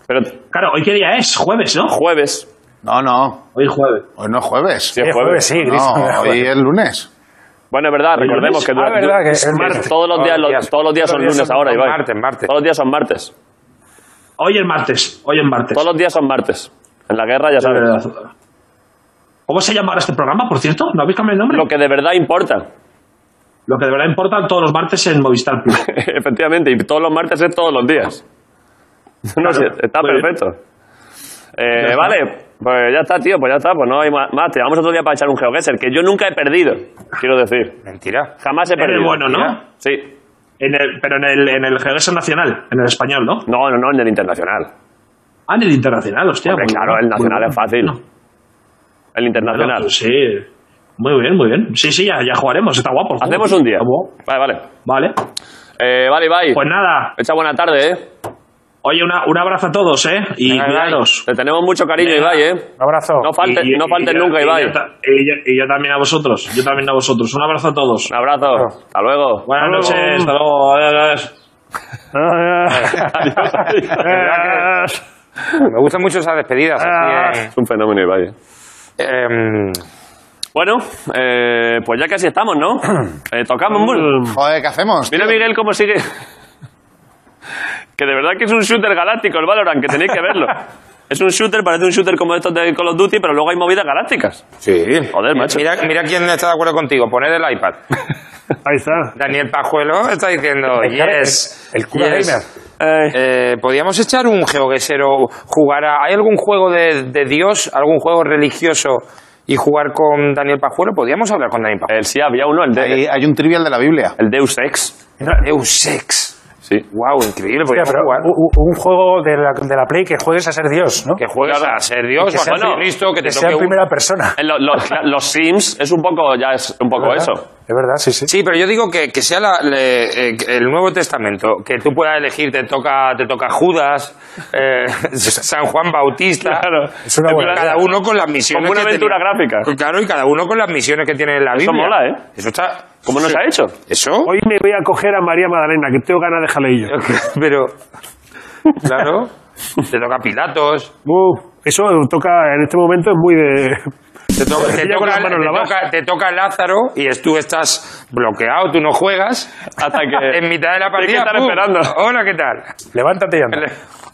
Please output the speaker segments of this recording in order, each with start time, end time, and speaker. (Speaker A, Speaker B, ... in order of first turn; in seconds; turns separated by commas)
Speaker A: 0.1-0.4, Speaker B: 0.5-1.9, Speaker A: 1.9-2.5, Speaker C: 2.8-3.4, Speaker B: 3.5-4.1, Speaker C: 4.2-5.0, Speaker A: 5.0-5.5, Speaker D: 5.0-6.5, Speaker C: 5.6-7.1, Speaker A: 7.7-13.3, Speaker B: 8.2-8.6, Speaker D: 8.7-9.9, Speaker E: 9.6-9.8, Speaker F: 9.9-12.5, Speaker B: 14.4-15.8, Speaker A: 15.8-17.9, Speaker B: 17.6-18.3, Speaker B: 19.5-21.7, Speaker A: 21.5-22.7, Speaker B: 23.7-25.8, Speaker A: 25.8-28.2, Speaker A: 29.3-30.6, Speaker B: 29.4-30.3, Speaker A: 31.6-37.8, Speaker B: 31.8-32.2, Speaker F: 37.9-38.3, Speaker A: 38.4-40.1, Speaker B: 38.8-39.6, Speaker B: 40.6-43.5, Speaker A: 43.5-44.7, Speaker B: 45.5-48.0, Speaker A: 46.5-48.0, Speaker A: 49.1-49.9, Speaker B: 49.4-50.5, Speaker B: 51.0-54.1, Speaker A: 53.2-54.7, Speaker B: 54.8-55.1, Speaker A: 55.8-56.6, Speaker B: 56.5-57.1, Speaker A: 57.2-58.0, Speaker B: 58.8-61.2, Speaker F: 60.5-61.0, Speaker A: 61.3-62.7, Speaker B: 62.0-62.4, Speaker D: 62.8-63.3, Speaker A: 63.2-64.8, Speaker B: 63.4-68.1, Speaker A: 68.1-69.9, Speaker B: 69.5-71.3, Speaker E: 69.6-70.3, Speaker E: 72.1-73.2, Speaker F: 72.7-73.2, Speaker A: 73.0-74.1, Speaker F: 74.0-74.7, Speaker E: 74.0-75.0, Speaker F: 75.5-77.5, Speaker E: 76.8-77.3, Speaker A: 77.5-78.3, Speaker F: 79.0-79.8, Speaker A: 80.5-84.1, Speaker E: 83.7-84.4, Speaker C: 84.3-85.4, Speaker A: 85.1-86.1, Speaker A: 88.0-94.4, Speaker F: 94.6-97.8, Speaker A: 95.1-95.7, Speaker E: 98.7-99.1, Speaker F: 99.2-102.4, Speaker D: 100.8-102.5, Speaker A: 102.8-103.2, Speaker F: 103.1-111.9, Speaker A: 111.9-113.0, Speaker C: 112.8-114.2, Speaker A: 114.2-114.9, Speaker F: 115.4-116.3, Speaker F: 116.9-118.3, Speaker D: 117.7-121.2, Speaker F: 121.2-123.8, Speaker A: 121.4-122.9, Speaker D: 122.3-124.4, Speaker A: 124.4-127.4, Speaker D: 127.0-128.3, Speaker F: 128.3-136.7, Speaker A: 136.4-137.8, Speaker D: 137.1-137.8, Speaker F: 137.2-142.8, Speaker A: 138.5-139.7, Speaker A: 141.5-142.2, Speaker A: 143.1-143.8, Speaker F: 143.9-144.3, Speaker E: 144.2-146.9, Speaker F: 146.9-147.7, Speaker F: 148.8-149.3, Speaker F: 149.9-150.9, Speaker E: 151.1-153.9, Speaker F: 154.3-159.5, Speaker E: 154.6-155.8, Speaker A: 159.8-160.4, Speaker F: 160.2-162.7, Speaker A: 161.0-161.9, Speaker D: 162.9-163.7